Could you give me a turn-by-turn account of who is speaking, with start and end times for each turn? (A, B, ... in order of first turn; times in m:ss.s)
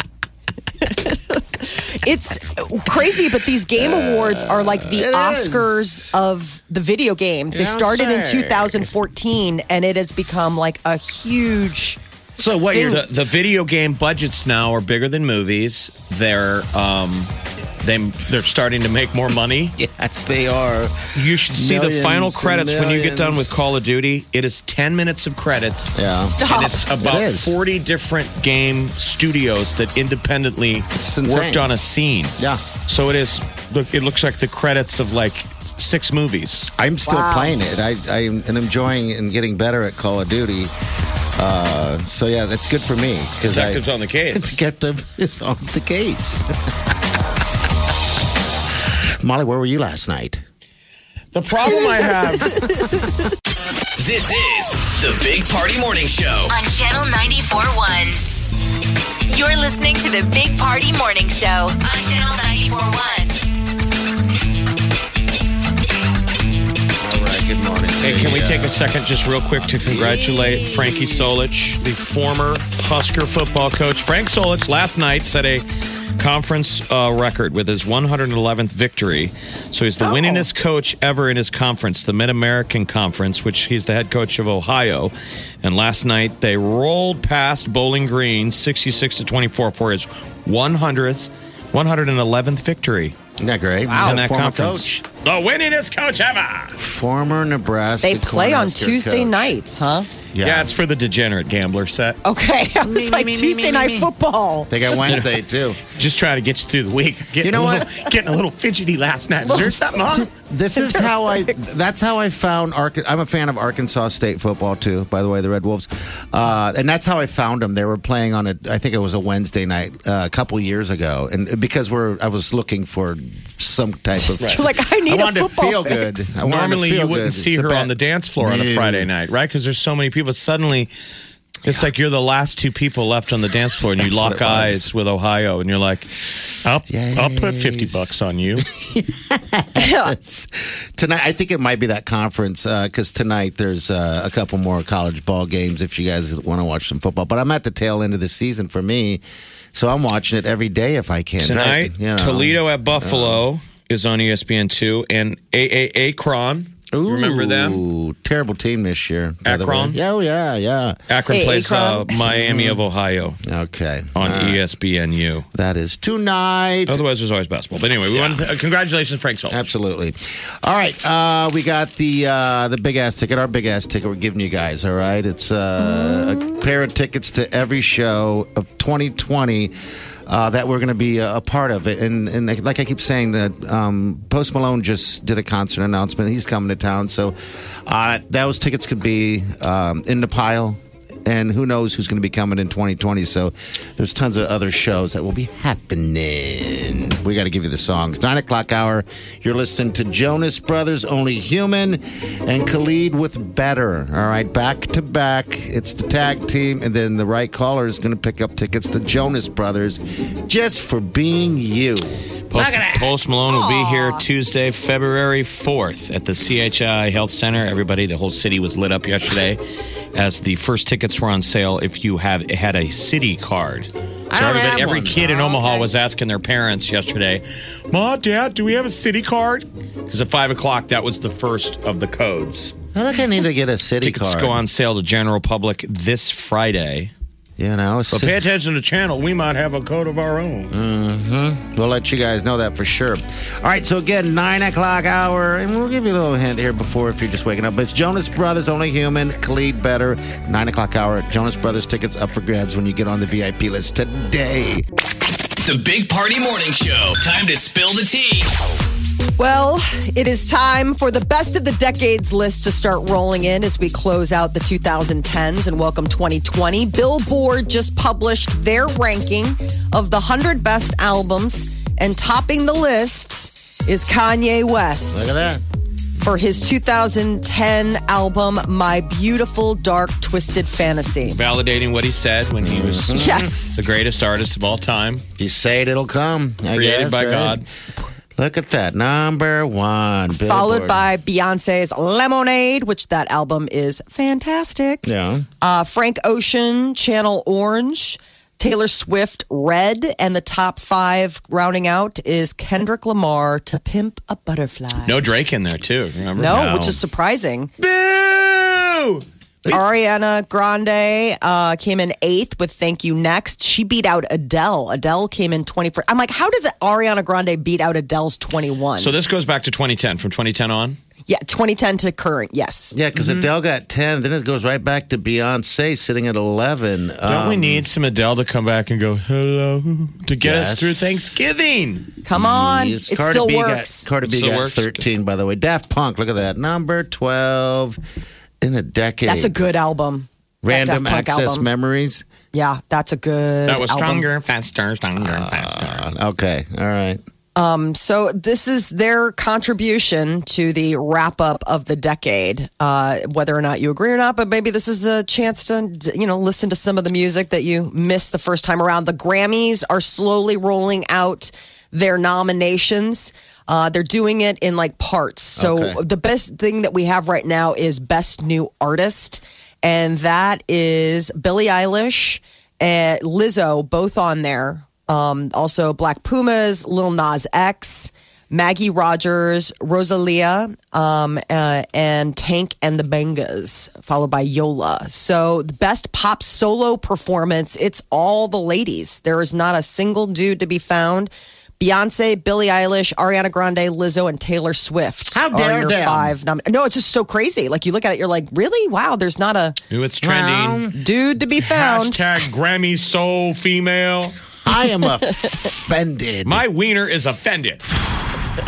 0:00.8-0:12.0 A
0:03.8-0:06.1 B
0:07.5-0:08.9 B
0:12.4-0:13.1 B
0:12.7-0:13.0 A
0:12.9-0:19.8 C
0:19.8-0:23.6 B
0:21.1-0:32.3 C
0:26.0-0:26.4 B
0:26.1-0:26.8 A
0:27.0-0:27.6 B
0:31.0-0:31.7 B
0:32.4-0:32.6 B
0:32.9-0:36.7 C
0:36.8-0:40.7 B
0:37.1-0:37.6 A
0:41.4-0:46.5 B
0:43.4-0:44.6 C
0:49.2-0:50.4 B
0:51.3-0:52.8 C
0:51.8-0:52.9 A
0:54.0-0:56.6 D
0:56.5-0:58.2 E
0:59.3-1:03.4 E
1:07.0-1:08.9 B
1:08.0-1:15.6 C
1:09.8-1:11.3 B
1:16.2-1:33.2 C
1:20.0-1:20.5 A
1:33.4-1:35.0 B
1:33.9-1:34.2 A
1:34.0-1:36.8 C
1:36.8-1:39.6 B
1:38.0-1:40.1 A
1:40.3-1:40.7 B
1:40.4-1:42.2 C
1:42.2-1:45.1 A
1:42.8-1:44.1 B
1:44.7-1:45.8 B
1:45.0-1:50.3 C
1:47.4-1:47.9 B
1:49.4-1:51.8 A
1:50.3-2:09.1 B
2:04.4-2:06.4 A
2:06.4-2:10.9 C
2:11.6-2:18.7 C
2:14.0-2:14.9 B
2:16.9-2:18.1 B
2:18.6-2:29.2 B
2:19.8-2:20.2 A
2:29.7-2:33.5 B
2:31.4-2:37.8 C
2:36.9-2:41.0 B
2:39.4-2:40.0 C
2:41.1-2:43.4 C
2:41.3-2:42.1 A
2:42.3-2:42.8 B
2:43.4-2:44.6 B
2:44.2-2:45.5 C
2:45.5-2:47.0 B
2:46.9-2:49.6 C
2:48.1-2:48.4 B
2:49.5-2:59.7 B
3:00.3-3:07.4 B
3:07.9-3:33.2 B
3:32.5-3:39.6 C
3:33.5-3:34.2 A
3:40.1-3:52.8 C
3:44.3-3:45.9 B
3:52.9-3:54.6 B
3:54.0-3:57.1 C
3:57.6-3:58.4 B
3:58.1-4:00.7 C
4:00.7-4:14.8 B
4:15.6-4:18.5 D
4:19.4-4:35.4 A
4:35.1-4:35.6 B
4:36.2-4:41.4 A
4:41.3-4:45.2 C
4:42.6-4:43.5 B
4:43.1-4:43.8 A
4:45.4-4:47.6 B
4:46.7-4:47.7 C
4:48.4-4:51.1 B
4:50.3-5:05.2 A
4:55.0-4:55.5 B
5:05.0-5:07.0 C
5:06.4-5:07.7 A
5:06.4-5:07.0 B
5:07.8-5:09.8 C
5:09.7-5:19.2 A
5:19.0-5:21.0 C
5:21.3-5:23.5 A
5:22.9-5:27.9 B
5:27.2-5:32.1 C
5:30.4-5:31.3 B
5:32.2-5:34.1 A
5:32.3-5:38.0 B
5:34.2-5:35.1 C
5:38.6-5:39.5 B
5:39.2-5:41.7 A
5:40.6-5:42.3 B
5:42.5-5:44.3 A
5:43.7-5:46.1 C
5:45.2-5:47.2 B
5:47.6-6:39.8 A
6:05.6-6:06.0 B
6:35.3-6:36.4 B
6:39.9-6:40.9 C
6:40.2-6:41.0 B
6:40.9-6:42.3 A
6:41.6-6:44.4 C
6:44.6-6:46.6 B
6:45.2-6:45.5 A
6:46.4-6:47.9 C